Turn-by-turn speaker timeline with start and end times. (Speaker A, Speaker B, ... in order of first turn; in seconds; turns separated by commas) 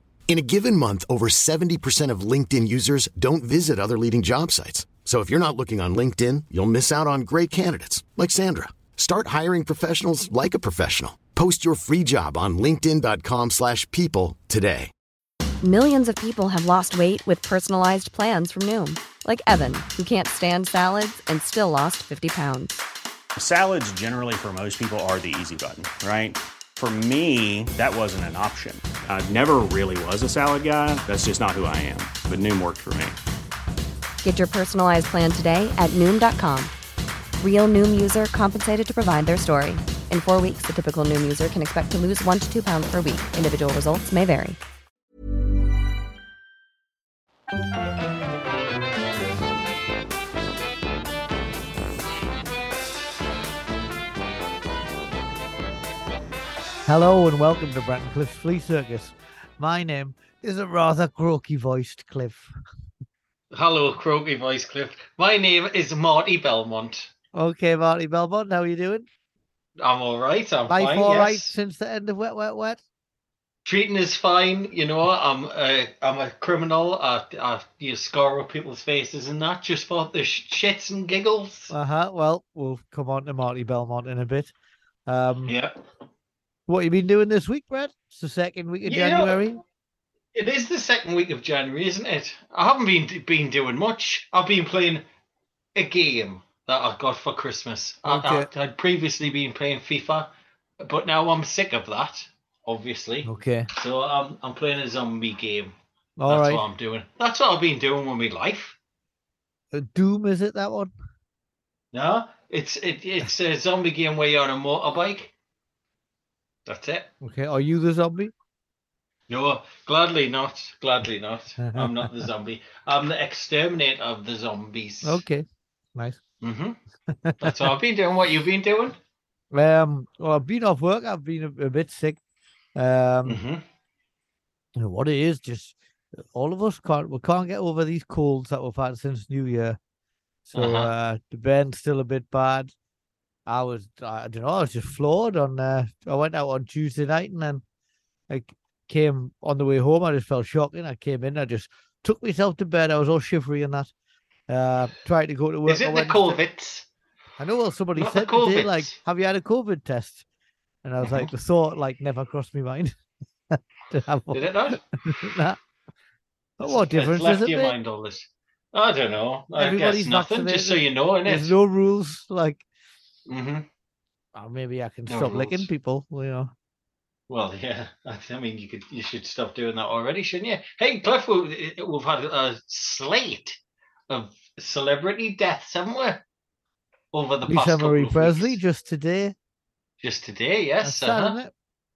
Speaker A: 0.3-14.9, Speaker B: 15.6-22.8, Speaker C: 23.4-33.2, Speaker B: 34.2-36.7, Speaker B: 37.4-44.6, Speaker D: 56.9-62.5, Speaker E: 63.5-67.1, Speaker D: 67.3-69.1, Speaker E: 69.8-71.5, Speaker D: 70.7-72.8, Speaker E: 73.6-81.7, Speaker D: 81.7-84.5, Speaker D: 85.1-85.5, Speaker E: 85.5-85.8, Speaker D: 86.7-89.6, Speaker E: 88.8-89.6, Speaker E: 90.3-95.0, Speaker E: 95.7-105.7, Speaker D: 98.0-98.5, Speaker D: 103.2-103.7, Speaker D: 106.2-106.6, Speaker E: 106.3-108.8, Speaker D: 109.7-110.9, Speaker E: 111.9-115.3, Speaker E: 116.7-117.1, Speaker D: 117.2-118.3, Speaker E: 119.3-125.2, Speaker D: 121.6-122.0, Speaker D: 125.0-126.2, Speaker E: 126.4-126.8, Speaker D: 127.1-127.7, Speaker E: 127.4-129.0, Speaker D: 129.5-132.2, Speaker D: 132.7-133.4, Speaker E: 133.3-133.6, Speaker D: 134.7-139.8, Speaker D: 140.5-142.7, Speaker E: 140.5-140.9, Speaker D: 143.4-147.6, Speaker D: 148.3-153.9, Speaker D: 154.5-156.4, Speaker E: 155.7-156.9, Speaker D: 157.4-160.2, Speaker E: 157.9-158.9, Speaker D: 160.8-163.0, Speaker E: 161.0-161.3, Speaker D: 163.5-165.6, Speaker E: 164.3-165.3, Speaker D: 166.6-167.7, Speaker E: 166.6-171.5, Speaker D: 169.6-172.6, Speaker E: 173.3-173.7, Speaker D: 174.3-176.5, Speaker E: 175.1-175.7, Speaker E: 177.3-186.2, Speaker E: 187.1-188.6, Speaker D: 187.4-189.3, Speaker E: 190.0-191.4, Speaker D: 190.8-191.5